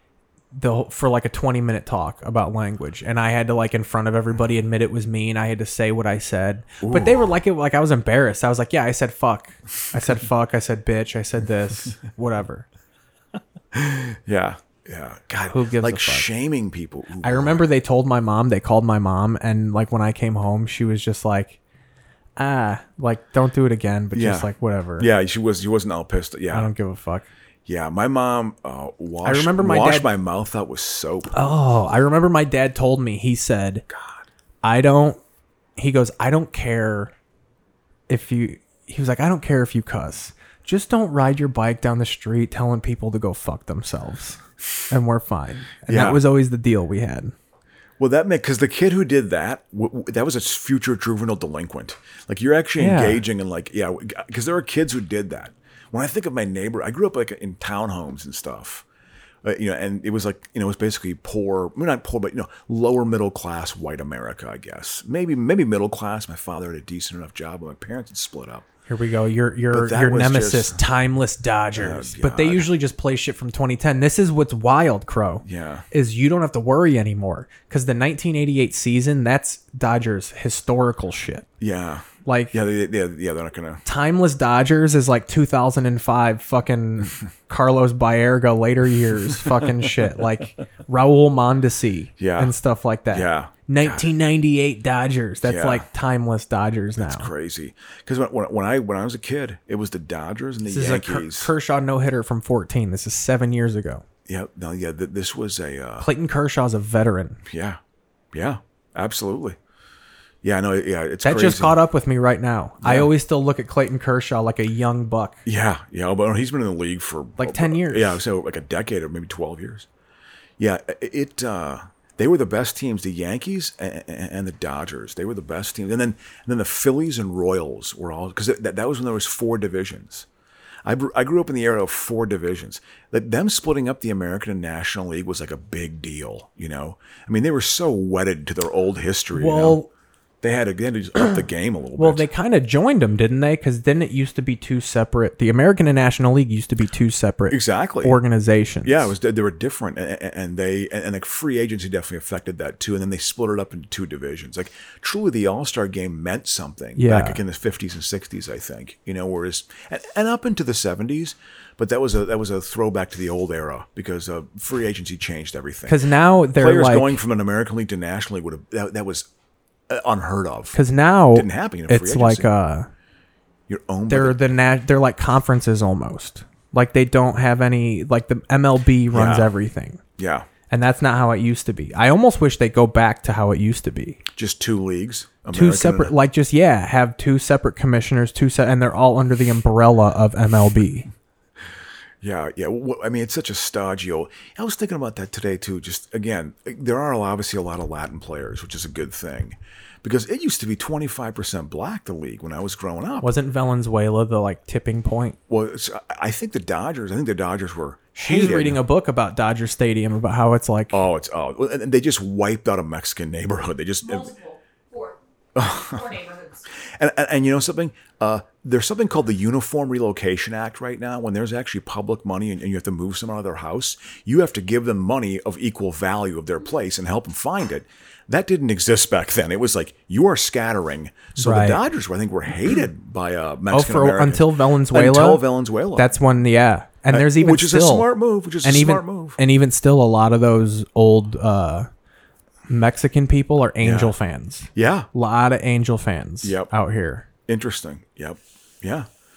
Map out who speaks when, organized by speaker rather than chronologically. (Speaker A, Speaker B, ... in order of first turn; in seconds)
Speaker A: 0.5-12.7, 15.5-16.3, 17.2-21.6, 22.4-25.1, 26.5-27.3, 29.2-30.1, 31.3-33.8, 34.6-35.2, 35.8-37.1, 38.1-47.3, 52.8-53.2, 68.9-81.5, 82.2-82.5, 83.8-97.3, 100.6-104.0, 106.0-107.4, 111.2-115.4, 117.4-118.2, 139.3-139.9, 142.0-149.1, 157.0-157.4, 165.9-167.2, 170.7-172.9, 174.1-180.0, 180.7-184.2, 185.5-191.1, 203.2-205.4, 208.2-211.0, 231.4-231.8, 233.7-235.4, 235.9-238.1, 238.6-241.9, 242.7-247.3
Speaker B: 6.8-7.2, 13.7-17.7, 24.1-26.7, 27.6-31.3, 33.9-34.2, 45.9-46.2, 48.0-58.8, 59.4-68.6, 69.7-70.8, 71.7-72.7, 75.4-75.8, 81.6-83.8, 92.2-92.5, 93.1-94.1, 95.4-95.9, 97.0-101.5, 104.3-106.1, 107.5-107.8, 108.3-109.6, 110.4-111.8, 112.8-113.1, 115.4-119.9, 120.6-130.3, 130.8-139.8, 140.4-142.3, 147.5-148.2, 148.8-169.3, 169.9-170.8, 171.3-172.5, 173.7-174.4, 179.1-179.5, 180.2-180.5, 184.3-186.1, 192.2-203.3, 205.5-208.8, 210.9-214.3, 215.5-216.1, 216.9-236.1, 237.1-239.4, 243.8-244.1, 244.7-245.1, 246.4-246.7, 247.5-249.1
Speaker C: 214.0-215.2, 215.7-216.6